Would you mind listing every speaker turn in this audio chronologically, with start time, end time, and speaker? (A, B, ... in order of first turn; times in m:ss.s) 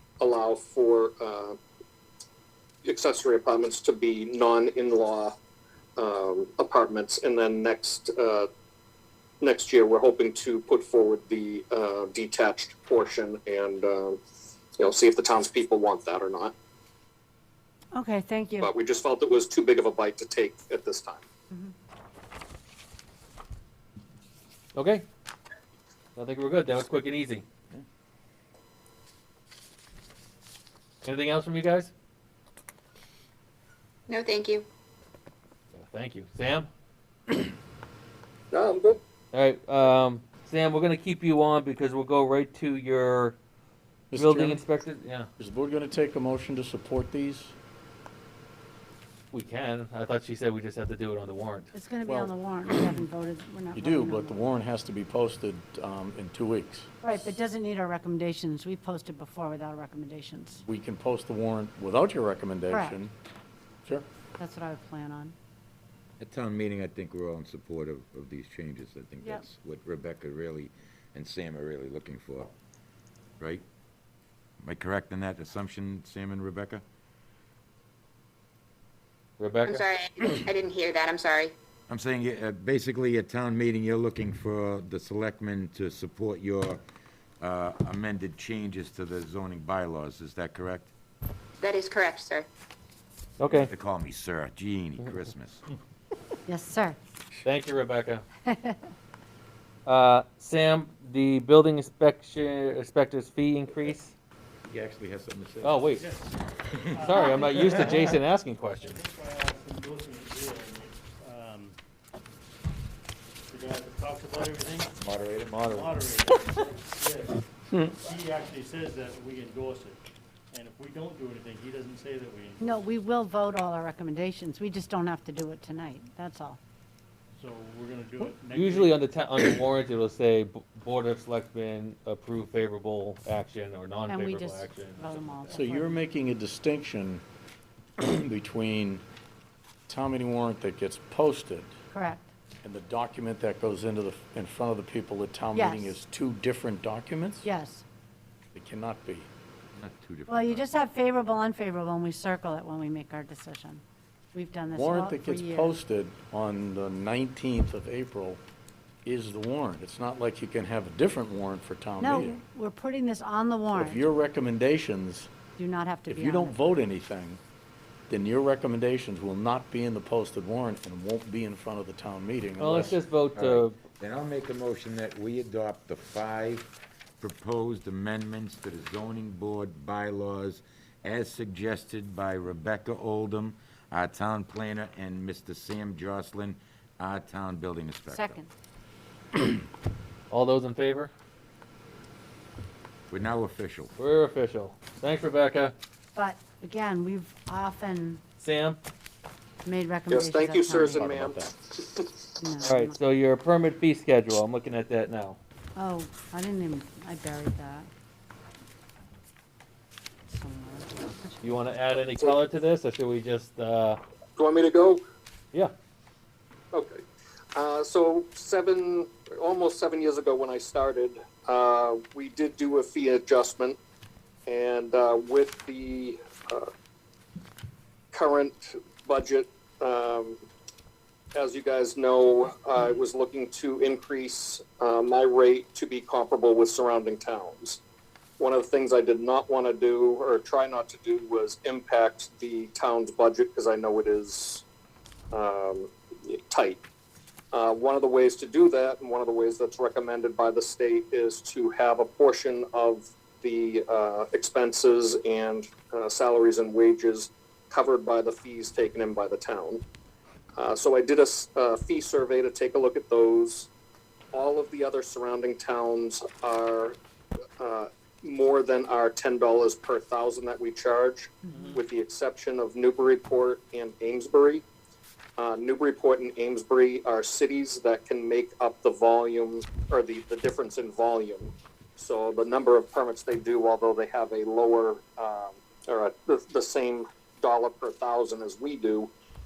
0:00.2-0:01.6 A
0:02.8-0:05.3 A
0:06.0-0:08.5 A
0:09.4-0:14.2 A
0:14.8-0:16.5 A
0:17.9-0:18.7 B
0:18.6-0:21.2 A
0:24.7-0:25.0 C
0:26.2-0:27.4 C
0:31.0-0:31.9 C
0:34.1-0:34.7 D
0:35.7-0:36.7 C
0:38.5-0:39.0 A
0:39.3-0:43.4 C
0:44.1-0:44.6 E
0:44.1-0:45.3 C
0:45.4-0:47.5 E
0:49.3-0:52.3 C
0:51.7-0:54.4 B
0:53.7-0:56.9 E
0:57.0-1:00.6 B
1:00.6-1:03.1 E
1:02.7-1:03.0 B
1:04.4-1:05.3 B
1:06.2-1:12.5 F
1:13.4-1:13.6 F
1:14.6-1:16.8 F
1:19.4-1:19.8 C
1:19.6-1:21.5 D
1:21.9-1:26.8 F
1:27.4-1:30.9 F
1:31.6-1:32.5 D
1:33.4-1:33.7 C
1:33.5-1:35.6 F
1:36.5-1:37.0 B
1:37.4-1:38.2 C
1:38.4-1:38.9 B
1:39.8-1:44.1 C
1:44.6-1:45.8 F
1:45.6-1:46.0 C
1:45.9-1:48.0 G
1:46.8-1:47.7 F
1:47.0-1:49.0 C
1:48.8-1:51.8 G
1:53.5-1:54.9 G
1:55.0-1:55.8 F
1:55.5-1:56.0 C
1:55.6-2:02.8 G
2:02.6-2:06.6 B
2:07.3-2:09.0 G
2:08.5-2:15.6 C
2:14.1-2:16.0 B
2:15.5-2:17.2 E
2:18.0-2:19.0 E
2:19.9-2:21.7 E
2:21.9-2:22.3 B
2:22.6-2:27.5 E
2:25.5-2:26.0 B
2:27.4-2:27.8 B
2:28.5-2:29.3 E
2:29.7-2:30.7 F
2:30.3-2:33.8 B
2:34.3-2:35.7 B
2:34.7-2:38.4 E
2:39.0-2:42.4 E
2:42.0-2:44.0 B
2:43.7-2:45.3 E
2:45.6-2:46.7 B
2:46.1-2:47.4 E
2:48.1-2:53.0 E
2:52.6-2:53.8 C
2:52.7-3:08.4 F
3:08.1-3:08.5 B
3:10.3-3:11.1 C
3:13.1-3:13.9 F
3:14.0-3:15.7 C
3:16.1-3:18.2 B
3:18.4-3:18.8 C
3:19.6-3:21.0 B
3:20.1-3:22.2 A
3:20.9-3:21.6 E
3:22.4-3:23.0 B
3:22.6-3:25.4 C
3:25.8-3:27.9 B
3:30.3-3:31.6 B
3:31.4-3:34.0 C
3:34.4-3:35.0 A
3:36.7-3:37.0 A
3:37.5-3:43.8 A
3:44.5-3:46.7 A
3:48.1-3:50.4 A
3:51.3-3:57.8 A
3:58.4-4:04.6 A
4:05.3-4:06.8 A
4:07.5-4:19.8 A
4:20.6-4:23.7 A
4:24.3-4:27.0 A
4:27.6-4:34.6 A
4:35.4-4:49.1 A